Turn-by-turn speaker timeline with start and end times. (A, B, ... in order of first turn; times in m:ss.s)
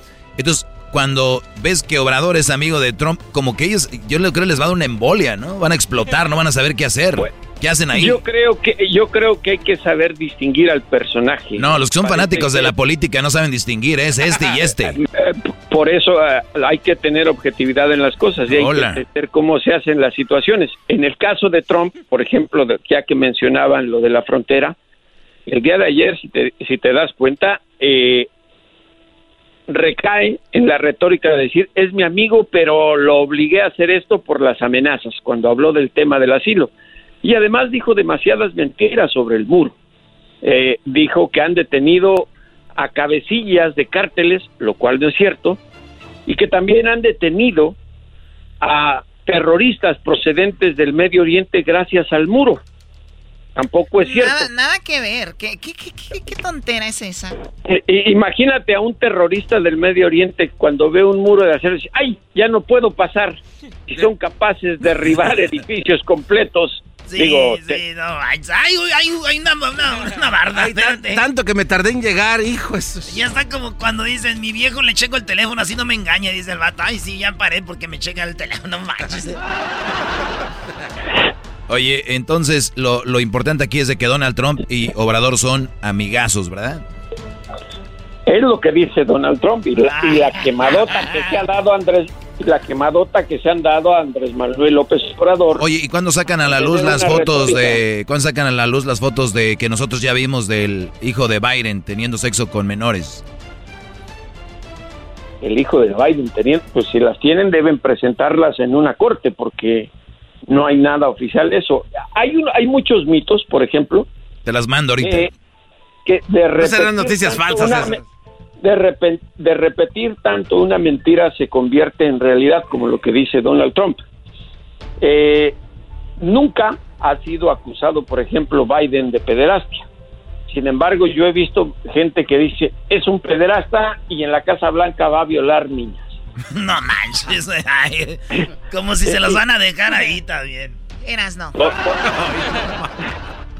0:00.4-0:08.2 A
0:07.9-0:12.7 B
0:11.6-0:15.0 A
0:14.8-0:24.7 B
0:18.5-0:19.0 A
0:25.5-0:28.3 B
0:29.7-0:36.7 B
0:37.2-0:39.7 B
0:40.4-0:45.6 B
0:46.2-0:47.7 B
0:48.6-0:52.6 B
0:53.6-0:54.5 B
0:54.0-0:57.4 C
0:57.6-1:07.8 B
1:07.1-1:11.2 D
1:10.5-1:13.2 E
1:13.1-1:19.4 D
1:21.7-1:26.8 A
1:28.3-1:35.6 B
1:29.8-1:31.4 D
1:35.6-1:43.2 A
1:36.5-1:37.8 B
1:45.4-1:49.9 B
1:50.5-1:54.1 B
1:54.4-1:55.3 A
1:55.0-1:55.3 B
1:56.0-1:58.0 B
1:56.6-1:58.0 E
1:58.6-2:04.0 B
2:05.0-2:05.6 B
2:06.2-2:09.8 B
2:10.5-2:16.1 B
2:16.5-2:20.8 D
2:19.1-2:19.4 B
2:21.0-2:21.6 C
2:21.6-2:22.1 B
2:22.0-2:22.9 E